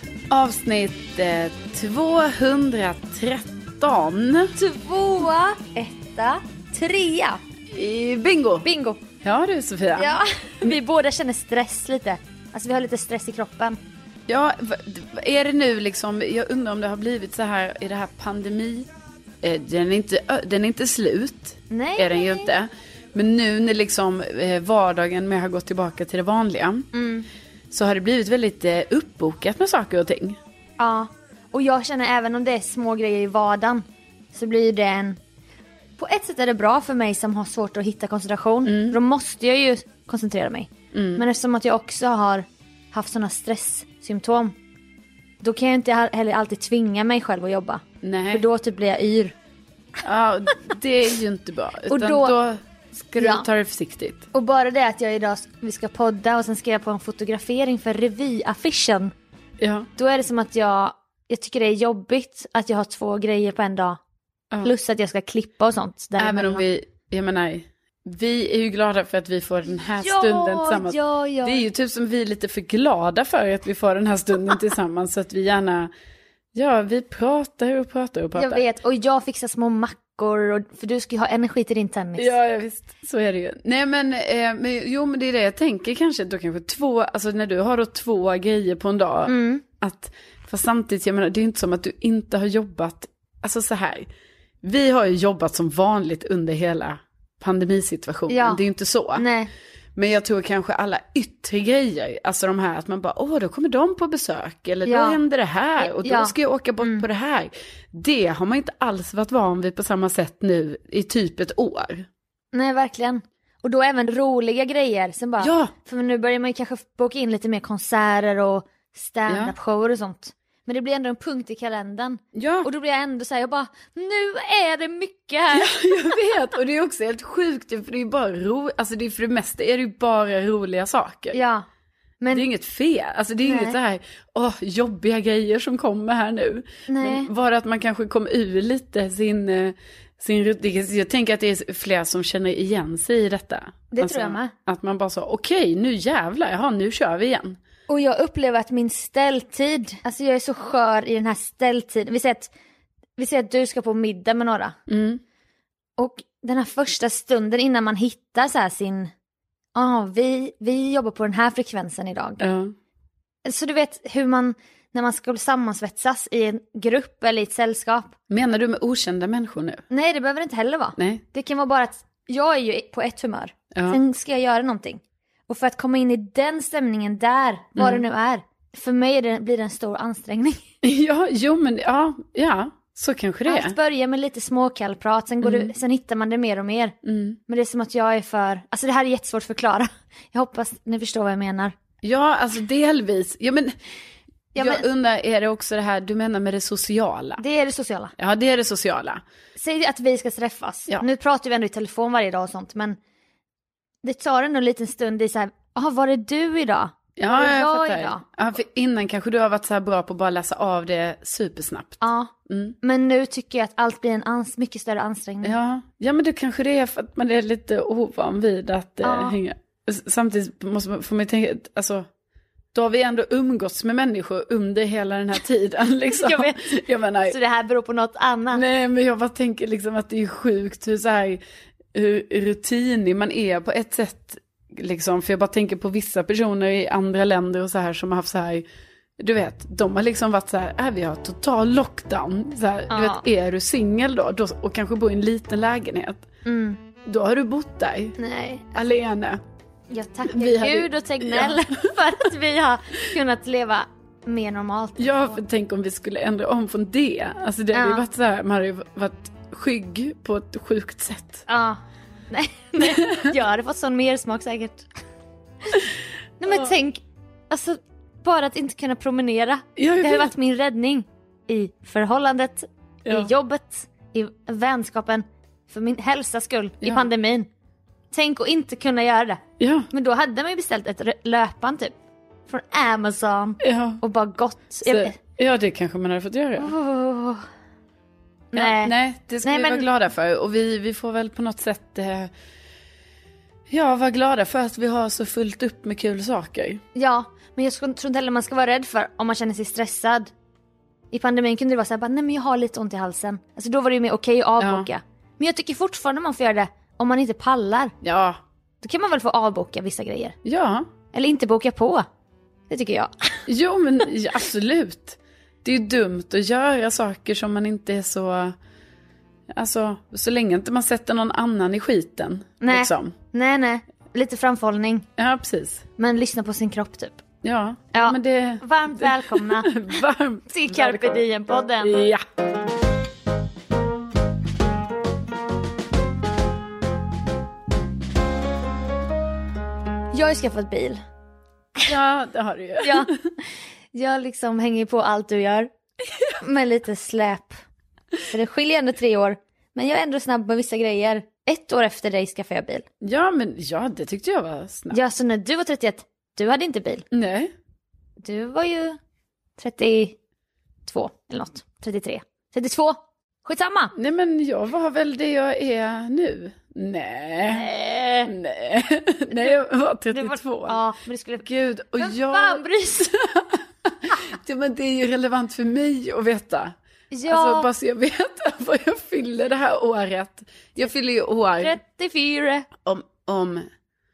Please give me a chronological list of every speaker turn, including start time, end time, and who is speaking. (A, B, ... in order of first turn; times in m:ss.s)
0:00.3-0:04.6 A
0:04.6-0:07.4 B
0:07.7-0:08.7 A
0:08.6-0:09.0 B
0:09.2-0:10.7 A
0:10.0-0:13.8 B
0:14.3-0:18.9 A
0:19.4-0:26.9 A
0:21.7-0:22.5 B
0:26.9-0:27.3 B
0:27.7-0:30.4 A
0:30.8-0:35.2 B
0:36.0-0:44.6 B
0:38.7-0:39.0 A
0:40.9-0:41.2 A
0:45.4-0:49.4 B
0:48.0-0:48.4 A
0:50.0-0:54.3 A
0:51.9-0:52.3 B
0:53.2-0:53.5 B
0:54.3-0:59.1 B
0:59.6-0:59.9 A
1:00.0-1:04.0 B
1:04.6-1:06.6 B
1:06.2-1:15.9 A
1:10.0-1:11.6 B
1:16.5-1:18.6 A
1:18.4-1:22.3 B
1:22.2-1:34.1 A
1:29.3-1:29.6 B
1:34.6-1:39.2 A
1:38.3-1:38.6 B
1:39.2-1:39.5 B
1:40.0-1:52.1 A
1:44.8-1:45.2 B
1:45.8-1:47.0 B
1:52.5-2:06.2 B
1:55.4-1:55.7 A
1:59.3-1:59.5 A
2:02.3-2:02.7 A
2:05.5-2:11.4 A
2:11.3-2:11.7 B
2:12.2-2:12.5 B
2:12.3-2:27.6 A
2:13.4-2:13.8 B
2:16.9-2:17.3 B
2:23.9-2:24.5 B
2:27.9-2:32.5 B
2:33.2-2:34.8 B
2:34.9-2:35.2 A
2:36.0-2:39.1 B
2:39.8-2:42.4 B
2:42.4-2:42.8 A
2:43.4-2:48.2 B
2:48.3-2:49.8 A
2:49.9-3:00.6 B
2:51.0-2:51.2 A
2:53.7-2:54.0 A
2:57.8-2:58.0 A
3:00.8-3:03.8 A
3:03.5-3:07.0 B
3:05.4-3:05.7 A
3:07.0-3:07.4 A
3:07.5-3:11.8 B
3:12.0-3:13.7 A
3:14.6-3:14.8 B
3:14.6-3:17.4 A
3:17.4-3:18.1 B
3:18.2-3:19.2 A
3:19.6-3:23.0 B
3:24.0-3:28.2 B
3:27.2-3:32.8 A
3:32.0-3:35.6 B
3:35.4-3:42.1 A
3:39.0-3:39.4 B
3:42.7-3:47.4 A
3:46.1-3:46.6 B
3:47.3-3:48.6 B
3:48.5-3:51.4 A
3:51.9-3:58.7 A
3:59.2-4:06.3 A
4:02.9-4:03.2 B
4:06.4-4:06.8 B
4:07.0-4:08.2 A
4:08.2-4:08.8 B
4:08.7-4:09.4 A
4:09.9-4:15.4 B
4:10.3-4:11.8 A
4:15.0-4:21.4 A
4:17.7-4:18.1 B
4:21.5-4:24.9 B
4:22.8-4:23.3 A
4:26.4-4:37.5 B
4:26.5-4:26.7 A
4:29.8-4:30.3 A
4:33.0-4:33.3 A
4:38.1-4:41.9 B
4:39.6-4:39.9 A
4:42.5-4:45.2 B
4:43.6-4:44.0 A
4:44.9-4:46.7 A
4:46.6-4:47.4 B
4:48.5-4:49.9 B
4:48.5-4:52.3 A
4:53.7-4:56.8 A
4:57.0-5:00.3 B
5:01.1-5:07.9 B
5:04.6-5:04.9 A
5:08.0-5:08.4 A
5:08.8-5:10.4 B
5:10.4-5:10.9 A
5:11.1-5:12.1 B
5:12.7-5:13.5 B
5:13.5-5:18.6 A
5:19.5-5:23.2 A
5:22.6-5:25.1 B
5:25.2-5:25.9 A
5:26.0-5:27.2 B
5:27.4-5:31.2 A
5:27.9-5:31.9 B
5:31.8-5:32.2 A
5:40.1-5:41.0 B
5:41.8-5:43.1 A
5:42.8-5:43.1 B
5:43.9-5:45.7 B
5:46.4-5:47.6 B
5:48.3-5:52.9 B
5:53.0-5:55.0 A
5:54.9-5:57.0 B
5:57.1-5:57.5 A
5:58.2-5:59.0 B
5:59.6-6:00.2 B
6:00.9-6:03.9 B
6:04.0-6:07.7 A
6:07.5-6:08.3 B
6:08.3-6:10.8 A
6:10.1-6:11.4 B
6:11.4-6:16.8 A
6:12.0-6:13.1 B
6:17.1-6:17.7 B
6:17.3-6:21.8 A
6:21.6-6:22.7 B
6:22.8-6:23.7 A